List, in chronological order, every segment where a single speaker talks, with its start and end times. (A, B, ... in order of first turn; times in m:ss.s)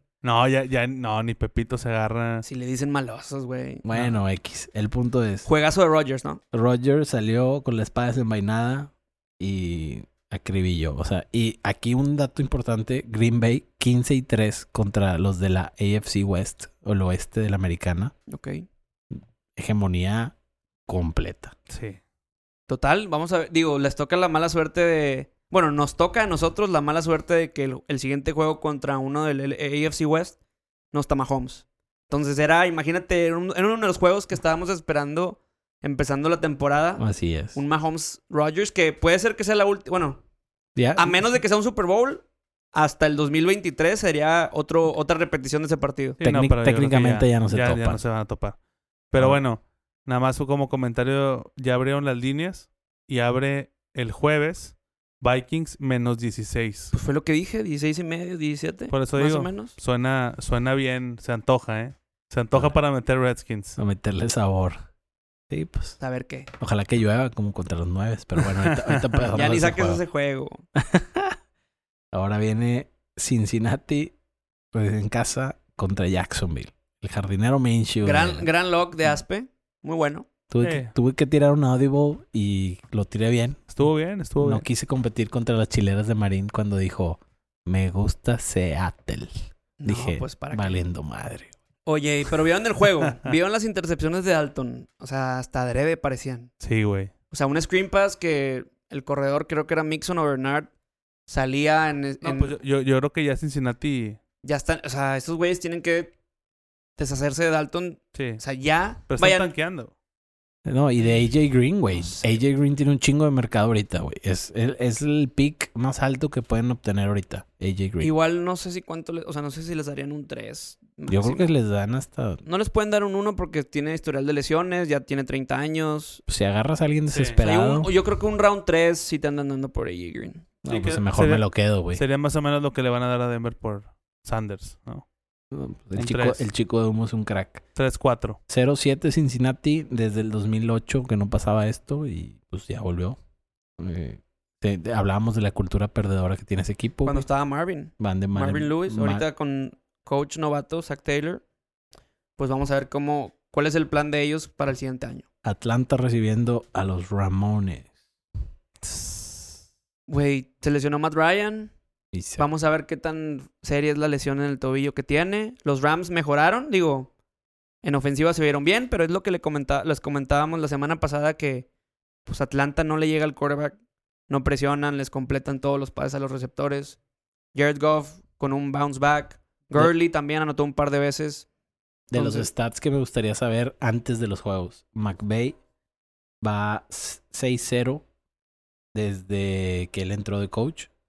0:00.2-0:02.4 A
0:02.4-0:03.8 B
0:03.8-0:05.5 C
0:05.5-0:06.4 B
0:06.5-0:18.1 C
0:18.3-0:18.7 B
0:19.6-0:20.4 C
0:20.9-0:21.5 C
0:21.7-0:22.0 A
0:22.7-0:30.4 B
0:30.9-0:37.0 B
0:37.0-0:37.6 C
0:37.6-0:40.2 B
0:40.8-0:41.2 C
0:41.0-0:46.2 B
0:46.2-0:48.6 A
0:46.2-0:48.0 C
0:49.1-0:56.9 A
0:49.2-0:49.4 C
0:56.9-0:59.8 B
0:58.9-1:03.8 A
1:03.8-1:04.8 C
1:05.5-1:06.0 C
1:06.0-1:06.5 B
1:06.6-1:10.0 C
1:08.4-1:09.3 A
1:09.3-1:10.6 B
1:10.8-1:11.4 C
1:12.1-1:14.1 C
1:14.7-1:18.5 C
1:18.0-1:20.3 B
1:20.5-1:23.7 C
1:20.6-1:20.9 A
1:23.7-1:24.6 A
1:24.4-1:31.5 C
1:29.8-1:30.8 B
1:31.9-1:36.5 B
1:36.6-1:37.1 A
1:37.3-1:40.7 B
1:41.3-1:42.6 B
1:42.2-1:44.2 A
1:44.4-1:46.1 B
1:47.0-1:49.5 B
1:48.1-1:48.4 A
1:49.1-1:49.9 A
1:50.6-1:58.1 C
1:51.9-1:52.4 B
1:58.0-2:01.5 B
2:01.1-2:02.4 C
2:02.4-2:06.2 B
2:06.3-2:07.9 C
2:07.1-2:07.4 A
2:07.4-2:10.5 B
2:10.6-2:12.0 C
2:10.7-2:15.0 A
2:15.5-2:17.6 C
2:16.0-2:16.4 A
2:17.8-2:18.4 A
2:18.5-2:23.2 C
2:23.8-2:27.3 C
2:27.0-2:31.4 B
2:28.0-2:29.2 C
2:32.4-2:35.2 B
2:35.4-2:37.9 C
2:40.1-2:41.7 B
2:42.1-2:42.5 C
2:42.4-2:47.1 B
2:47.8-2:51.7 B
2:52.3-2:53.8 B
2:54.3-2:57.0 B
2:57.5-3:01.5 B
3:02.1-3:02.5 B
3:02.1-3:05.6 C
3:06.4-3:08.0 C
3:08.9-3:10.9 C